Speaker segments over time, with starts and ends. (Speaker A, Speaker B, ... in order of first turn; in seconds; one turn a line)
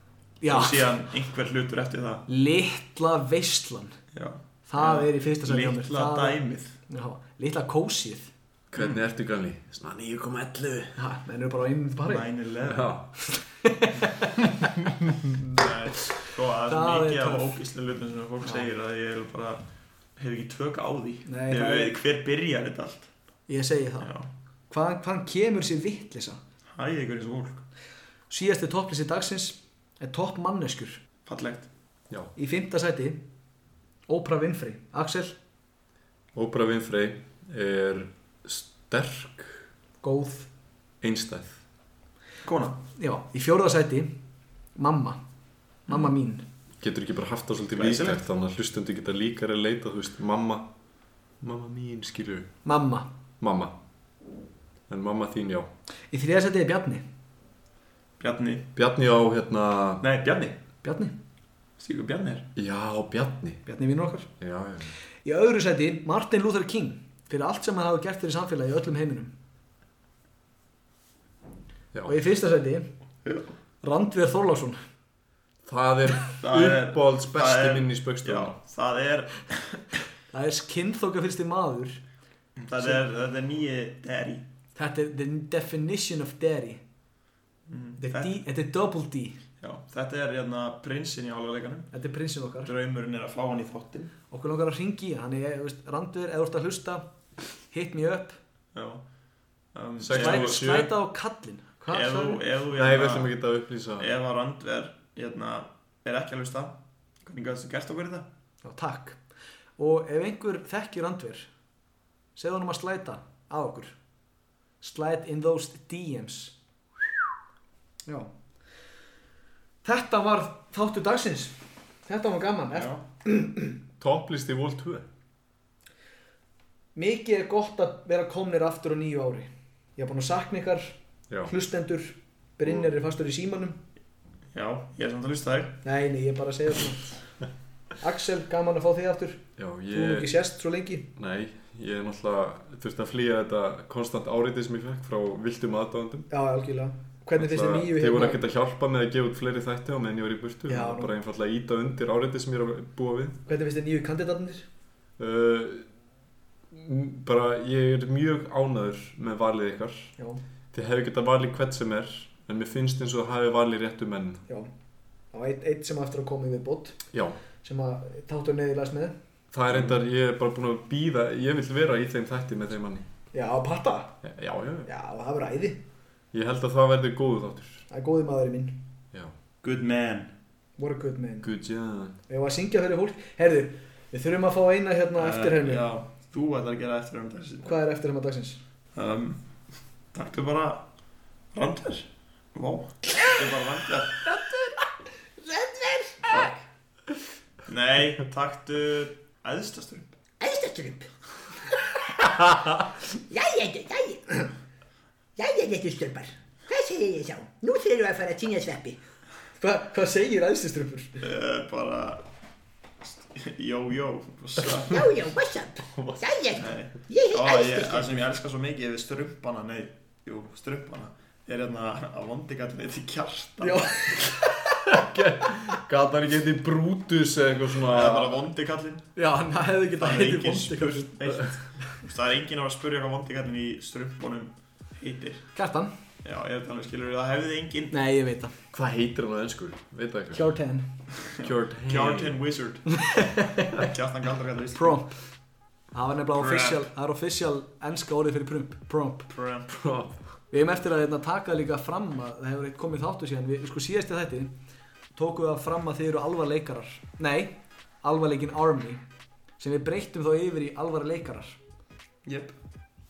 Speaker A: 0.4-0.9
Speaker B: 0.5-2.2
Speaker A: 2.3-4.0
Speaker B: 4.1-6.8
Speaker A: 4.7-8.3
Speaker C: 8.7-10.9
Speaker B: 8.7-9.0
Speaker A: 10.9-12.3
Speaker B: 12.1-12.9
Speaker C: 12.7-13.1
Speaker A: 13.2-14.7
Speaker B: 15.5-19.6
Speaker A: 15.5-16.1
Speaker A: 16.7-17.6
Speaker B: 20.1-23.1
Speaker A: 21.3-21.9
Speaker A: 23.5-24.1
Speaker B: 24.0-24.3
Speaker A: 24.7-26.4
Speaker B: 26.7-27.6
Speaker A: 28.3-31.0
Speaker B: 31.2-31.7
Speaker A: 32.4-33.2
Speaker A: 34.1-35.4
Speaker C: 36.3-39.6
Speaker A: 40.0-40.5
Speaker C: 41.0-41.6
Speaker B: 42.4-42.8
Speaker A: 43.0-44.2
Speaker A: 44.8-45.2
Speaker A: 45.9-46.5
Speaker C: 46.8-50.7
Speaker B: 47.8-48.2
Speaker C: 51.4-52.5
Speaker A: 52.6-53.1
Speaker C: 53.4-53.7
Speaker C: 54.9-55.7
Speaker A: 56.1-57.0
Speaker B: 58.2-58.7
Speaker C: 58.7-60.0
Speaker B: 60.0-60.6
Speaker A: 60.8-61.2
Speaker B: 61.8-62.5
Speaker C: 62.5-63.6
Speaker A: 63.6-64.3
Speaker C: 64.4-65.0
Speaker A: 65.2-69.3
Speaker A: 72.0-72.9
Speaker B: 73.2-73.5
Speaker A: 73.8-74.8
Speaker C: 75.6-78.5
Speaker B: 76.4-79.8
Speaker A: 80.3-82.0
Speaker B: 82.6-84.5
Speaker A: 84.8-86.8
Speaker B: 87.7-88.4
Speaker A: 88.0-89.4
Speaker B: 89.6-91.9
Speaker A: 91.9-92.7
Speaker B: 92.6-94.1
Speaker A: 94.3-97.1
Speaker A: 97.7-98.4
Speaker B: 98.7-99.0
Speaker B: 99.7-100.7
Speaker C: 100.0-100.9
Speaker A: 100.1-102.4
Speaker B: 101.9-103.3
Speaker C: 102.7-104.1
Speaker B: 104.0-108.3
Speaker A: 108.6-109.2
Speaker A: 109.8-111.5
Speaker A: 112.3-114.0
Speaker A: 114.8-116.6
Speaker A: 118.0-118.3
Speaker A: 119.8-123.8
Speaker B: 122.7-123.0
Speaker C: 124.0-125.1
Speaker A: 126.9-130.9
Speaker A: 131.5-133.8
Speaker B: 134.5-135.8
Speaker A: 135.8-137.2
Speaker A: 138.0-141.1
Speaker C: 139.6-140.3
Speaker C: 141.1-146.3
Speaker A: 146.3-148.4
Speaker C: 147.4-153.4
Speaker A: 150.7-151.1
Speaker A: 153.4-154.7
Speaker C: 155.2-155.9
Speaker C: 156.7-160.1
Speaker A: 160.2-160.4
Speaker C: 160.7-164.4
Speaker A: 165.3-167.0
Speaker C: 167.1-167.4
Speaker A: 167.6-169.1
Speaker C: 169.5-173.1
Speaker A: 173.3-174.2
Speaker C: 174.2-174.9
Speaker A: 174.8-175.8
Speaker C: 176.3-177.8
Speaker A: 177.9-178.8
Speaker B: 179.6-180.3
Speaker A: 180.8-181.5
Speaker C: 181.4-182.2
Speaker A: 182.3-185.9
Speaker B: 185.2-187.7
Speaker A: 187.6-188.6
Speaker B: 188.9-189.4
Speaker B: 190.1-190.9
Speaker B: 191.5-194.2
Speaker D: 193.1-193.4
Speaker D: 194.2-194.7
Speaker D: 195.4-196.5
Speaker B: 196.3-196.6
Speaker B: 197.7-200.1
Speaker D: 200.4-201.1
Speaker D: 201.7-204.5
Speaker D: 205.4-209.0
Speaker A: 209.6-211.3
Speaker B: 211.2-212.2
Speaker B: 213.0-215.1
Speaker D: 214.8-218.2
Speaker B: 215.9-224.3
Speaker A: 223.6-224.9
Speaker C: 224.8-228.4
Speaker B: 227.8-229.1
Speaker A: 229.2-231.1
Speaker B: 230.0-235.5
Speaker A: 235.5-235.9
Speaker B: 236.2-237.9
Speaker A: 237.9-238.5
Speaker C: 238.7-240.4
Speaker A: 240.3-240.9
Speaker B: 241.2-245.1
Speaker C: 241.4-242.4
Speaker A: 242.9-243.8
Speaker A: 244.7-245.1
Speaker A: 245.9-249.3
Speaker B: 246.3-246.8
Speaker B: 249.3-249.7
Speaker C: 249.7-250.3
Speaker A: 250.5-254.5
Speaker A: 255.1-259.0
Speaker A: 259.6-261.6
Speaker B: 262.2-262.6